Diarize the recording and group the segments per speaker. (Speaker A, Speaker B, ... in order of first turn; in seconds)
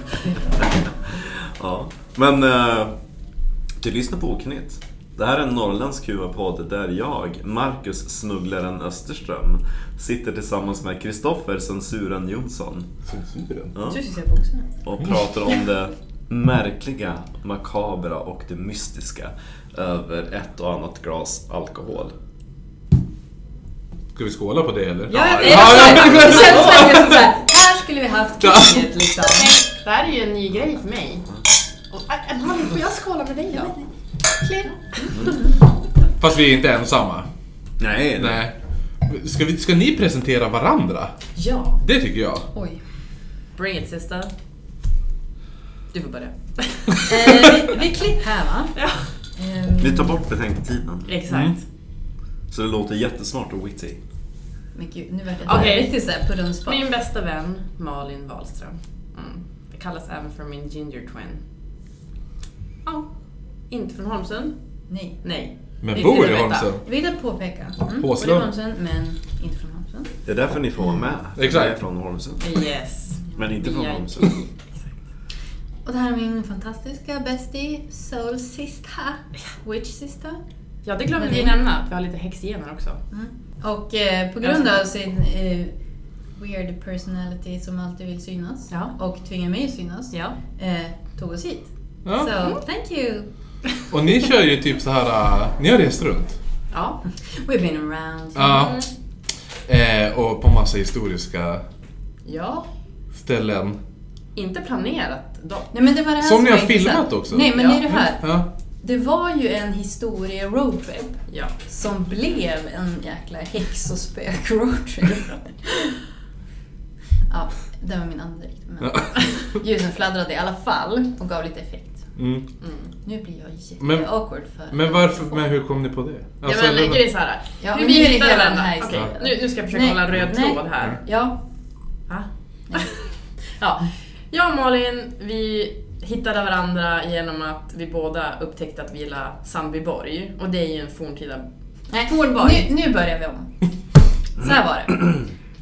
Speaker A: 0.6-2.9, 3.8-12.9, 13.7-14.0, 14.8-22.1, 37.8-38.4, 49.8-51.1, 52.5-54.0, 70.2-72.6, 73.3-74.4
Speaker B: 13.1-13.7, 24.1-27.2, 28.4-28.9, 36.2-37.3, 38.2-38.5, 39.0-41.1, 41.8-42.5, 51.3-51.5, 65.8-66.8, 68.0-68.5, 71.3-71.7, 92.0-92.4, 93.9-96.4, 98.3-98.8, 99.7-101.6, 103.2-103.8, 106.2-108.5, 118.8-119.4, 122.2-122.4, 123.8-124.2, 124.7-127.0
Speaker C: 13.8-14.7, 25.1-29.6, 33.5-33.9, 34.6-35.5, 42.5-42.8, 47.0-48.8, 49.4-50.1, 54.7-56.8, 64.9-65.2, 66.7-70.1, 75.8-80.4, 81.1-81.6, 83.1-85.7, 86.3-93.3, 97.1-98.8, 105.7-116.0, 117.3-122.0, 123.0-125.4, 127.6-131.4, 141.9-143.5, 144.4-145.2
Speaker D: 25.1-27.0, 29.3-31.3, 31.9-33.7, 34.4-35.4, 41.4-41.8, 43.5-44.3, 45.9-47.5, 48.7-49.1, 51.1-51.6, 55.4-56.0, 56.6-61.4, 63.7-64.5, 65.2-66.7, 72.4-74.5, 80.8-83.0, 84.4-84.8, 96.7-97.0, 98.4-98.9, 102.2-102.7, 104.3-105.7, 107.5-107.8, 111.3-111.5, 122.6-122.9, 126.4-131.0, 132.1-133.0, 133.6-141.4, 142.0-142.7